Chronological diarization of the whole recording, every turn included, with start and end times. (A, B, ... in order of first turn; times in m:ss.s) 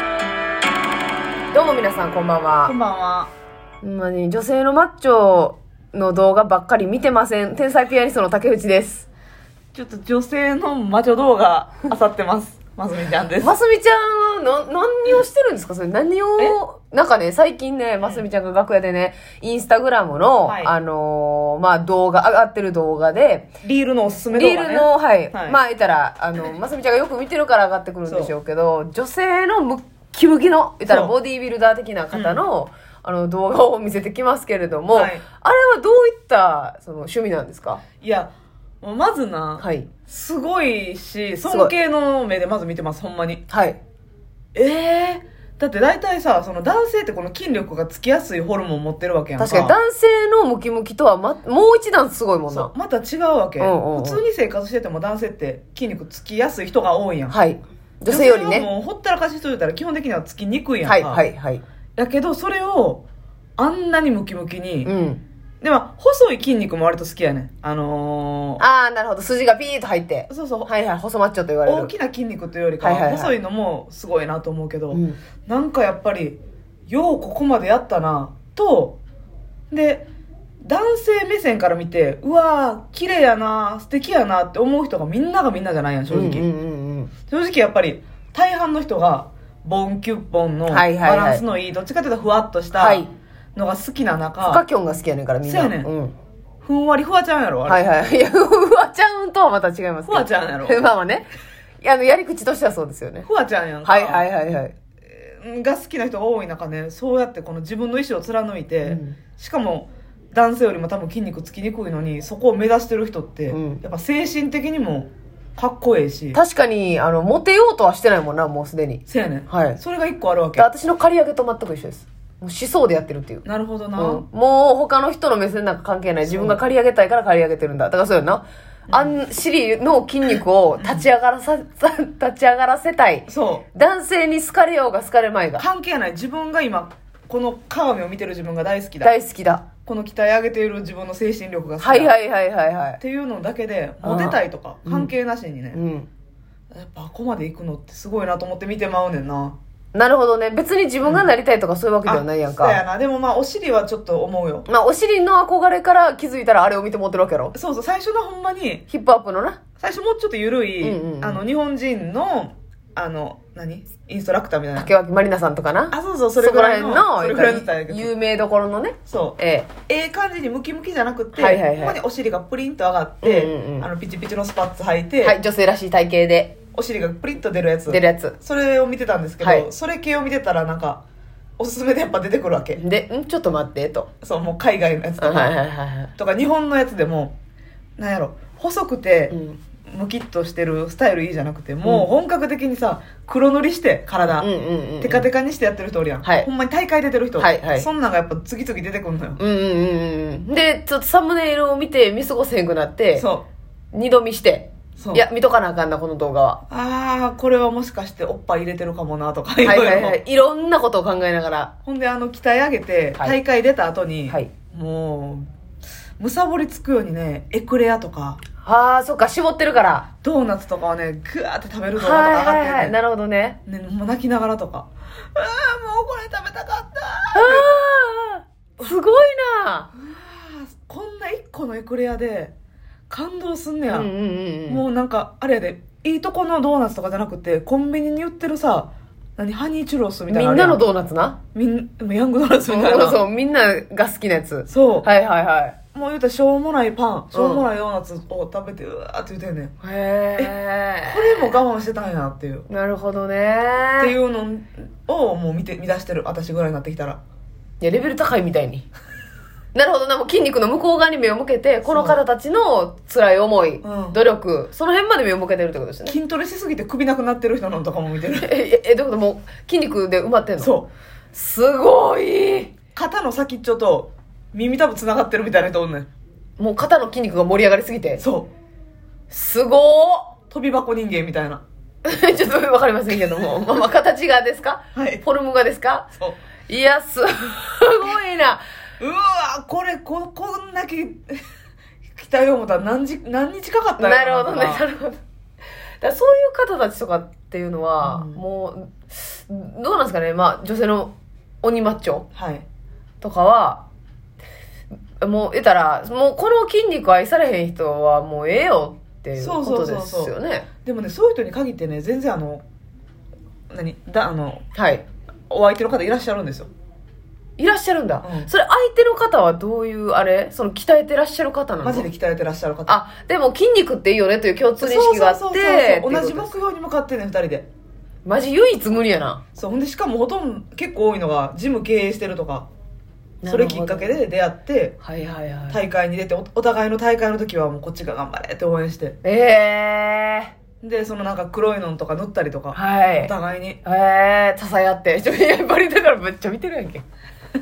0:01.5-0:02.7 A
0:02.6-0:03.3 B
0:03.8-0:09.1 A
0:09.7-0:13.6 B
0:13.4-0:23.5 A
0:18.0-0:18.2 B
0:20.4-0:20.7 B
0:23.6-0:25.6 B
0:24.3-0:37.8 A
0:28.0-0:28.3 B
0:30.8-0:31.1 B
0:32.1-0:32.4 B
0:34.9-0:35.2 B
0:38.0-0:43.4 B
0:39.6-0:39.9 A
0:41.4-0:41.7 A
0:43.5-0:43.8 A
0:44.5-0:49.8 B
0:49.4-0:52.7 A
0:52.5-0:57.4 B
0:53.6-0:54.2 A
0:57.3-0:58.7 A
0:58.1-1:01.2 B
1:00.8-1:01.6 A
1:02.0-1:03.0 B
1:03.6-1:04.9 B
1:04.8-1:05.2 A
1:05.6-1:08.6 B
1:08.6-1:11.9 A
1:10.3-1:10.7 B
1:11.6-1:19.0 B
1:12.8-1:13.3 A
1:14.9-1:15.2 A
1:19.7-1:20.1 B
1:20.6-1:26.5 B
1:26.1-1:27.1 A
1:27.3-1:34.6 B
1:30.7-1:31.4 A
1:32.7-1:33.1 A
1:34.4-1:36.1 A
1:35.4-1:35.9 B
1:36.6-1:37.8 B
1:37.7-1:41.3 A
1:40.0-1:40.8 B
1:41.8-1:43.3 A
1:43.2-1:44.3 B
1:43.8-1:44.8 A
1:45.0-1:56.4 B
1:48.8-1:49.2 A
1:53.5-1:53.8 A
1:56.3-1:59.8 A
1:59.1-2:00.7 B
2:00.6-2:03.4 A
2:03.4-2:04.2 B
2:04.0-2:15.6 A
2:06.2-2:06.6 B
2:08.9-2:09.2 B
2:10.3-2:11.1 B
2:13.3-2:13.6 B
2:15.6-2:19.1 B
2:19.0-2:19.6 A
2:19.8-2:22.1 B
2:21.8-2:23.0 A
2:23.0-2:25.8 B
2:24.0-2:25.1 A
2:25.7-2:26.1 A
2:26.7-2:29.6 B
2:29.9-2:32.8 A
2:31.0-2:31.3 B
2:32.0-2:34.7 B
2:34.7-2:37.5 A
2:37.5-2:38.8 B
2:38.9-2:39.6 A
2:39.8-2:44.9 B
2:40.8-2:41.4 A
2:44.8-2:49.7 A
2:45.9-2:48.1 B
2:49.1-2:49.4 B
2:49.9-2:55.4 B
2:51.3-2:52.0 A
2:53.2-2:53.9 A
2:55.2-2:56.6 A
2:56.7-3:01.0 B
2:57.9-2:58.4 A
2:59.4-2:59.7 A
3:01.6-3:02.8 B
3:02.7-3:04.1 A
3:04.2-3:05.5 B
3:05.2-3:06.1 A
3:06.2-3:07.4 B
3:08.0-3:14.5 B
3:09.3-3:09.6 A
3:14.4-3:15.3 A
3:15.0-3:19.4 B
3:17.4-3:17.9 A
3:19.4-3:23.2 A
3:23.2-3:23.4 B
3:23.9-3:26.6 A
3:25.0-3:25.2 B
3:26.7-3:30.2 B
3:29.6-3:31.7 A
3:31.8-3:35.5 B
3:36.2-3:38.4 B
3:38.6-3:40.1 A
3:40.2-3:43.0 B
3:42.0-3:43.6 A
3:43.6-3:47.8 B
3:47.3-3:49.9 A
3:49.9-3:52.5 B
3:53.1-3:54.1 B
3:53.9-3:54.8 A
3:54.7-4:00.8 B
4:00.3-4:01.4 A
4:01.5-4:03.2 B
4:02.6-4:05.8 A
4:04.7-4:05.1 B
4:05.9-4:09.7 B
4:07.3-4:07.6 A
4:09.8-4:11.6 A
4:10.4-4:12.7 B
4:12.7-4:14.1 A
4:14.0-4:17.2 B
4:17.8-4:18.8 A
4:19.7-4:26.2 A
4:21.9-4:22.2 B
4:23.8-4:24.2 B
4:26.0-4:28.5 B
4:28.4-4:30.7 A
4:30.6-4:30.9 B
4:31.3-4:32.7 A
4:32.9-4:36.1 B
4:36.6-4:38.2 A
4:38.2-4:38.5 B
4:39.3-4:40.3 A
4:40.5-4:41.6 B
4:42.0-4:46.1 A
4:44.9-4:45.2 B
4:46.7-4:48.6 A
4:49.0-4:51.4 B
4:52.2-4:54.8 B
4:54.0-4:55.2 A
4:56.0-5:02.3 A
4:58.0-4:58.4 B
5:02.3-5:02.6 B
5:03.2-5:03.8 A
5:05.2-5:10.7 A
5:09.4-5:10.3 B
5:10.8-5:12.6 B
5:13.7-5:14.6 B
5:14.7-5:15.0 A
5:15.5-5:16.7 B
5:17.6-5:22.1 A
5:18.2-5:18.5 B
5:21.8-5:23.0 B
5:22.9-5:26.5 A
5:24.8-5:27.7 B
5:28.2-5:29.4 A
5:29.6-5:32.7 B
5:33.4-5:34.2 A
5:33.4-5:35.0 B
5:35.0-5:35.8 A
5:35.7-5:39.2 B
5:39.2-5:40.5 A
5:40.8-5:43.8 B
5:42.7-5:43.3 A
5:43.8-5:47.0 A